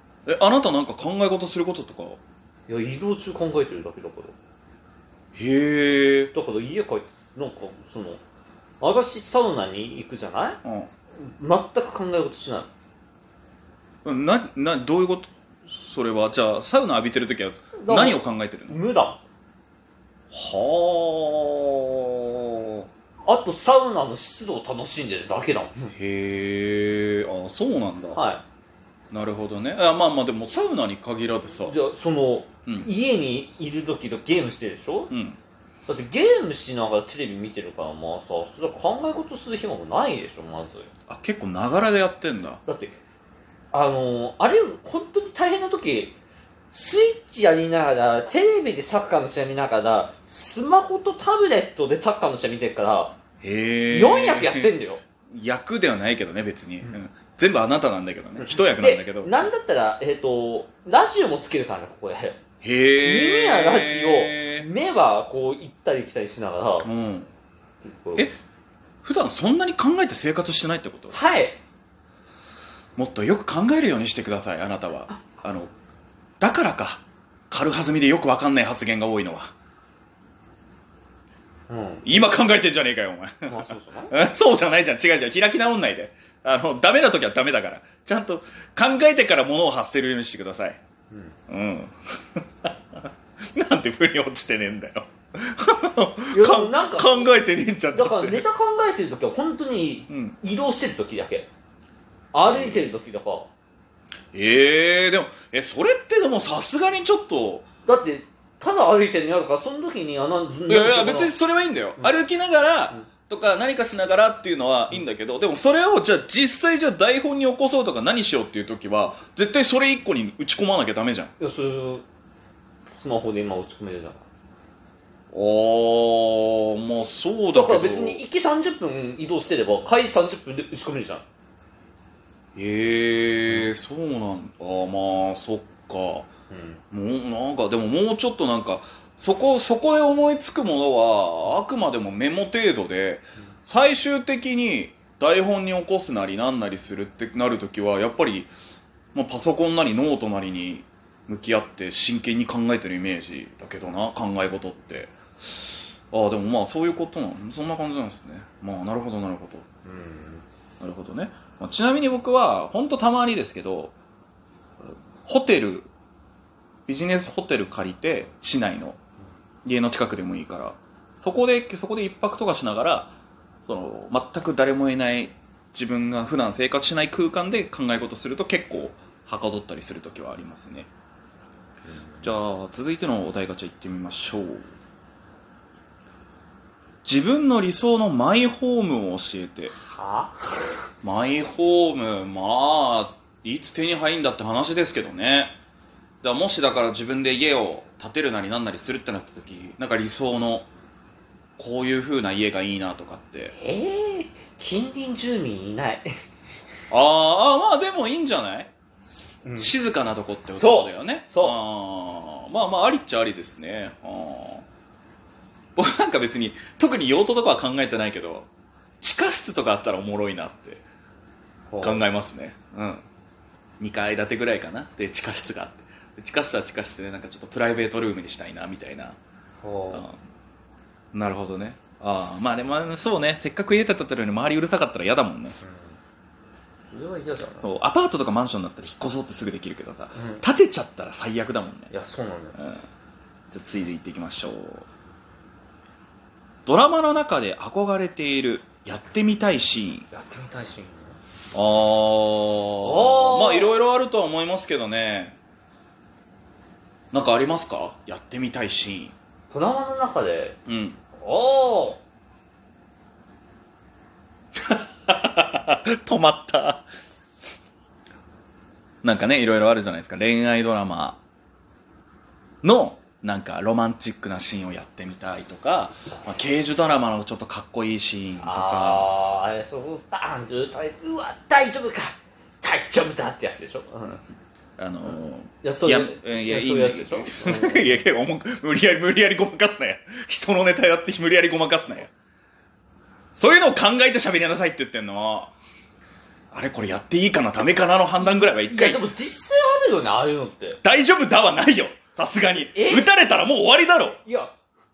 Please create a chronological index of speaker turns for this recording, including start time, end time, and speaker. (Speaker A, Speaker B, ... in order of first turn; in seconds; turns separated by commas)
Speaker A: 0.3-2.2, Speaker B: 2.7-4.4, Speaker A: 5.3-6.3, Speaker B: 6.3-8.2, Speaker B: 8.8-10.6, Speaker A: 10.6-10.9, Speaker B: 11.2-12.7, Speaker A: 14.1-18.8, Speaker B: 17.8-19.2, Speaker A: 20.3-22.9, Speaker B: 23.3-25.9, Speaker A: 25.9-28.2, Speaker B: 28.1-28.4, Speaker A: 29.1-31.8, Speaker B: 31.6-35.1, Speaker A: 35.1-35.4, Speaker B: 35.9-40.9, Speaker A: 41.1-42.6, Speaker B: 42.7-43.0, Speaker B: 43.7-46.2, Speaker B: 46.7-53.2, Speaker A: 53.4-54.8, Speaker B: 53.9-55.0, Speaker A: 55.3-59.5, Speaker B: 58.4-62.4, Speaker A: 62.6-64.7, Speaker B: 63.0-66.9, Speaker A: 66.8-67.3, Speaker B: 67.8-68.3, Speaker A: 69.0-71.2, Speaker B: 71.1-71.6, Speaker A: 73.0-75.7, Speaker A: 76.4-79.5, Speaker B: 81.7-82.4, Speaker A: 82.1-90.8, Speaker B: 83.5-84.2, Speaker B: 91.1-91.4, Speaker A: 91.5-92.7, Speaker A: 93.5-98.5, Speaker B: 96.3-97.3, Speaker B: 97.9-101.5, Speaker A: 100.1-100.4, Speaker B: 102.3-103.5, Speaker A: 102.5-102.8, Speaker A: 104.3-107.7, Speaker B: 107.9-111.3, Speaker A: 110.7-121.3, Speaker B: 121.4-122.0, Speaker B: 123.0-124.2, Speaker A: 125.3-128.2, Speaker B: 127.5-131.2, Speaker A: 132.6-136.3, Speaker B: 136.5-136.8, Speaker A: 136.9-148.5, Speaker A: 149.1-155.1, Speaker A: 156.1-159.7, Speaker B: 159.8-160.5, Speaker A: 160.8-163.9, Speaker A: 165.2-165.9, Speaker A: 166.9-169.0, Speaker A: 169.7-180.9, Speaker B: 181.9-182.4, Speaker A: 182.2-184.7, Speaker A: 187.0-189.7, Speaker B: 189.7-190.7, Speaker A: 191.0-195.6, Speaker A: 196.2-200.7, Speaker A: 201.6-203.5, Speaker B: 203.6-206.1, Speaker A: 206.9-208.7, Speaker B: 209.4-209.7, Speaker A: 209.6-214.7, Speaker B: 210.5-211.6, Speaker A: 215.8-218.5, Speaker A: 219.0-220.8, Speaker B: 221.7-222.0, Speaker A: 221.8-223.1, Speaker A: 223.8-229.2, Speaker B: 229.6-230.1, Speaker A: 229.9-230.2, Speaker A: 231.1-235.6, Speaker B: 235.6-236.0, Speaker B: 236.8-237.7, Speaker A: 237.6-241.9, Speaker B: 240.1-240.4, Speaker B: 241.9-242.6, Speaker A: 242.6-242.8, Speaker A: 243.5-244.9, Speaker A: 246.7-250.1, Speaker B: 250.1-251.2, Speaker A: 251.5-255.4, Speaker B: 252.8-253.8, Speaker A: 257.1-259.1, Speaker B: 259.5-260.6, Speaker A: 260.7-261.0, Speaker B: 261.2-262.0, Speaker A: 264.7-266.9, Speaker A: 269.0-271.2, Speaker A: 272.6-279.1, Speaker B: 278.4-284.2, Speaker A: 284.8-292.1, Speaker B: 285.6-288.0, Speaker A: 293.4-295.5, Speaker A: 296.5-299.0, Speaker B: 298.2-300.8, Speaker A: 300.8-304.2, Speaker B: 302.8-303.1, Speaker B: 304.2-304.5